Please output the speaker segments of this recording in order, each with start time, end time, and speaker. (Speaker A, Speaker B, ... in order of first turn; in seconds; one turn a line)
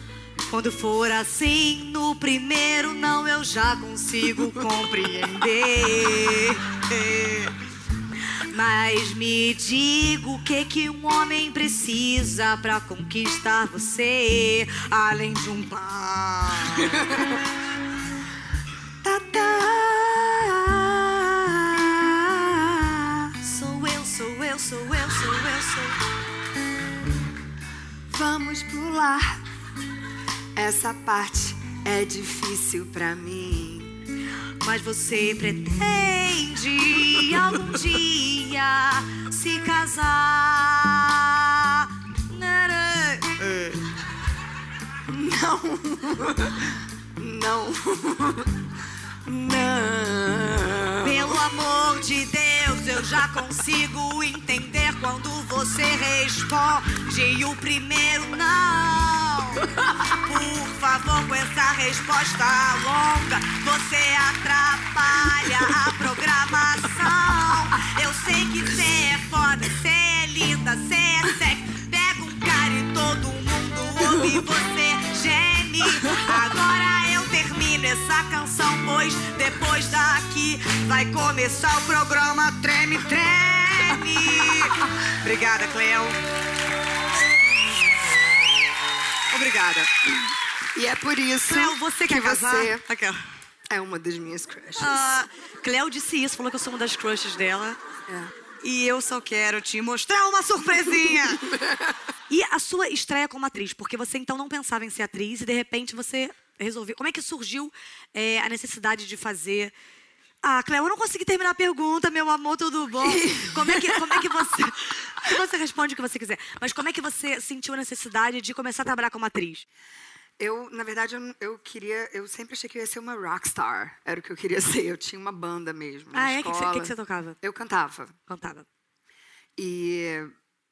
Speaker A: 0.5-7.5
Speaker A: 8.5-17.1
Speaker B: 16.9-17.4
Speaker B: 19.0-23.3
Speaker A: 23.4-26.0
Speaker B: 28.1-29.4
Speaker B: 30.6-34.0
Speaker A: 34.6-43.8
Speaker B: 45.1-48.6
Speaker B: 49.2-51.4
Speaker A: 51.0-86.2
Speaker A: 89.3-89.9
Speaker B: 90.7-92.8
Speaker A: 91.5-93.2
Speaker B: 93.7-95.1
Speaker A: 94.8-97.8
Speaker B: 98.1-98.3
Speaker A: 98.6-101.5
Speaker B: 101.5-101.8
Speaker A: 102.3-109.7
Speaker A: 110.4-119.7
Speaker B: 113.0-114.2
Speaker B: 120.4-128.2
Speaker A: 126.1-127.4
Speaker A: 128.3-128.7
Speaker B: 129.6-130.3